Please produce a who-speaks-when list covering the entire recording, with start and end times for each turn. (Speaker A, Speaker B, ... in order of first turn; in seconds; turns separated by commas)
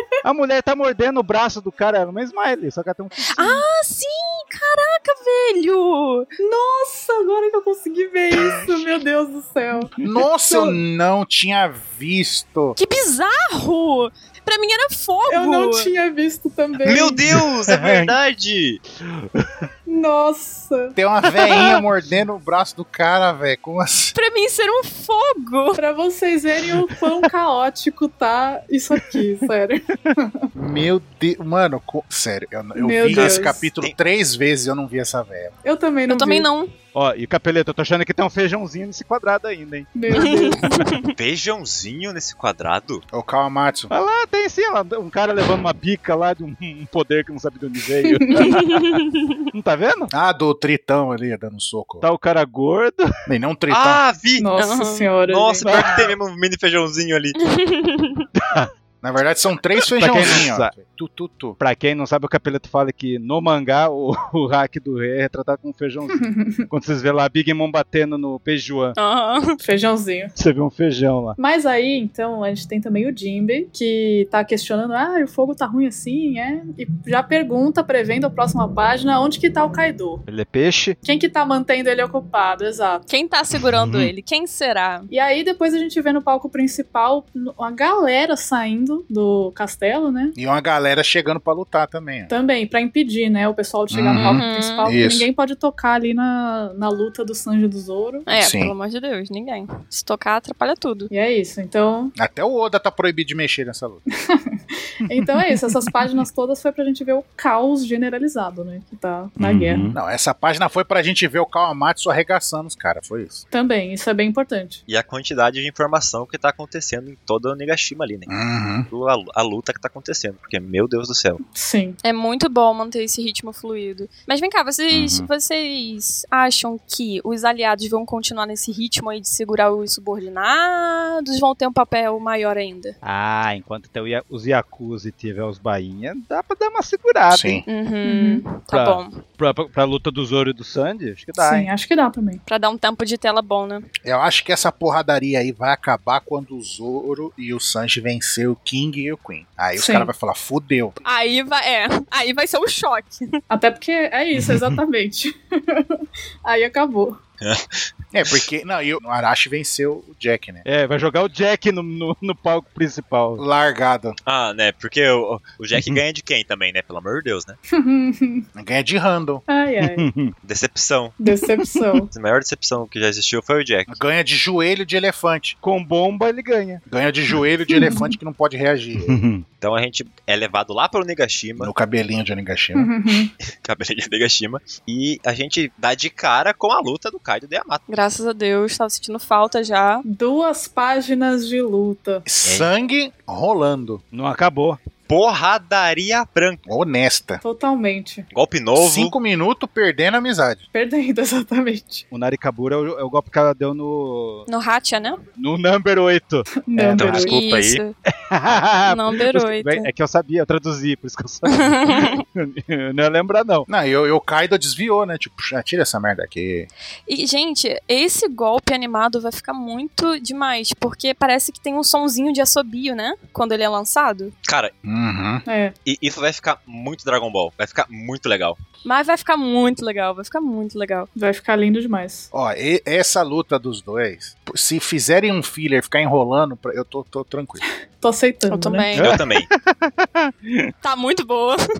Speaker A: 0.2-3.6, Speaker B: 3.3-6.3, Speaker C: 6.4-9.9, Speaker D: 8.3-8.8, Speaker D: 10.0-12.8, Speaker C: 10.5-10.8, Speaker B: 12.8-15.9, Speaker C: 15.3-17.2, Speaker E: 16.8-18.8, Speaker A: 17.7-18.1, Speaker A: 19.0-19.7, Speaker C: 19.9-20.9, Speaker D: 20.9-24.1, Speaker A: 21.5-21.8, Speaker B: 24.1-25.8, Speaker C: 25.8-30.5, Speaker D: 30.6-35.5, Speaker C: 32.8-33.7, Speaker E: 33.1-33.9, Speaker C: 35.6-36.5, Speaker B: 36.1-36.7, Speaker A: 36.9-40.9, Speaker C: 39.9-40.6, Speaker B: 40.1-41.1, Speaker E: 41.1-43.0, Speaker D: 43.1-43.9, Speaker A: 43.9-50.1, Speaker C: 48.2-48.5, Speaker B: 48.4-49.3, Speaker D: 50.1-52.0, Speaker A: 52.0-53.1, Speaker D: 53.3-54.0, Speaker E: 53.7-54.5, Speaker C: 54.4-55.6, Speaker B: 54.6-55.1, Speaker E: 55.3-57.4, Speaker A: 55.6-56.1, Speaker B: 57.4-58.3, Speaker A: 58.4-58.7, Speaker D: 59.0-61.6, Speaker A: 60.0-60.7, Speaker A: 61.6-68.9, Speaker C: 66.2-66.6, Speaker B: 69.0-69.6, Speaker C: 69.6-70.3, Speaker A: 70.3-71.4, Speaker C: 71.4-80.2, Speaker A: 80.3-81.0, Speaker C: 81.0-83.0, Speaker B: 83.1-85.1, Speaker A: 83.6-84.1, Speaker C: 85.1-90.3, Speaker D: 90.3-92.3, Speaker C: 92.3-98.3, Speaker D: 93.9-95.3, Speaker B: 94.2-94.9, Speaker B: 98.3-101.1, Speaker D: 98.4-98.7, Speaker C: 101.1-102.1, Speaker D: 102.2-104.0, Speaker C: 104.3-109.8, Speaker A: 105.0-105.9, Speaker A: 109.4-110.0, Speaker D: 109.9-113.4, Speaker C: 113.5-114.8, Speaker E: 114.9-118.4, Speaker D: 118.3-118.9, Speaker E: 118.9-121.4, Speaker C: 121.5-122.0, Speaker B: 122.0-132.9, Speaker A: 124.9-125.3, Speaker A: 133.0-137.6, Speaker D: 137.3-137.6, Speaker B: 137.7-139.2, Speaker C: 138.0-138.5, Speaker A: 138.6-141.7, Speaker C: 141.3-142.4, Speaker B: 142.5-143.9, Speaker D: 144.0-151.0, Speaker C: 149.8-150.1, Speaker B: 151.0-153.4, Speaker C: 153.5-157.2, Speaker A: 154.4-154.8, Speaker E: 157.4-157.8, Speaker D: 158.1-160.6, Speaker A: 160.7-163.4, Speaker D: 163.4-164.2, Speaker E: 164.2-167.6, Speaker C: 167.7-168.4, Speaker D: 168.5-169.4, Speaker C: 169.5-170.1, Speaker A: 169.8-170.3, Speaker E: 170.4-171.2, Speaker C: 171.2-172.1, Speaker E: 172.1-174.0, Speaker D: 173.9-175.6, Speaker A: 175.6-176.8, Speaker D: 176.9-179.2, Speaker C: 177.7-178.1, Speaker A: 179.0-179.4, Speaker E: 179.6-181.7, Speaker D: 181.6-182.9, Speaker C: 182.7-183.3, Speaker E: 183.5-187.8, Speaker B: 187.9-190.0, Speaker C: 190.1-192.2, Speaker D: 192.2-194.0, Speaker A: 194.1-194.8, Speaker E: 195.1-196.6, Speaker D: 196.7-197.4, Speaker C: 197.4-198.3, Speaker E: 198.3-199.1, Speaker D: 198.8-200.6, Speaker C: 200.7-202.1, Speaker A: 202.1-204.4, Speaker B: 204.5-205.2, Speaker A: 205.4-207.1, Speaker C: 206.6-207.4, Speaker E: 206.9-207.8, Speaker B: 207.1-207.9, Speaker A: 208.1-213.7, Speaker B: 208.8-209.9, Speaker B: 211.5-212.2, Speaker D: 213.7-216.7, Speaker B: 217.1-224.3, Speaker E: 224.4-224.7, Speaker D: 224.8-225.4, Speaker C: 225.4-225.7, Speaker E: 225.8-228.6, Speaker B: 228.8-231.1, Speaker C: 231.1-232.3, Speaker D: 232.3-237.6, Speaker C: 238.0-238.9, Speaker B: 238.5-239.1, Speaker A: 238.9-240.7, Speaker E: 238.9-239.5, Speaker B: 240.8-241.6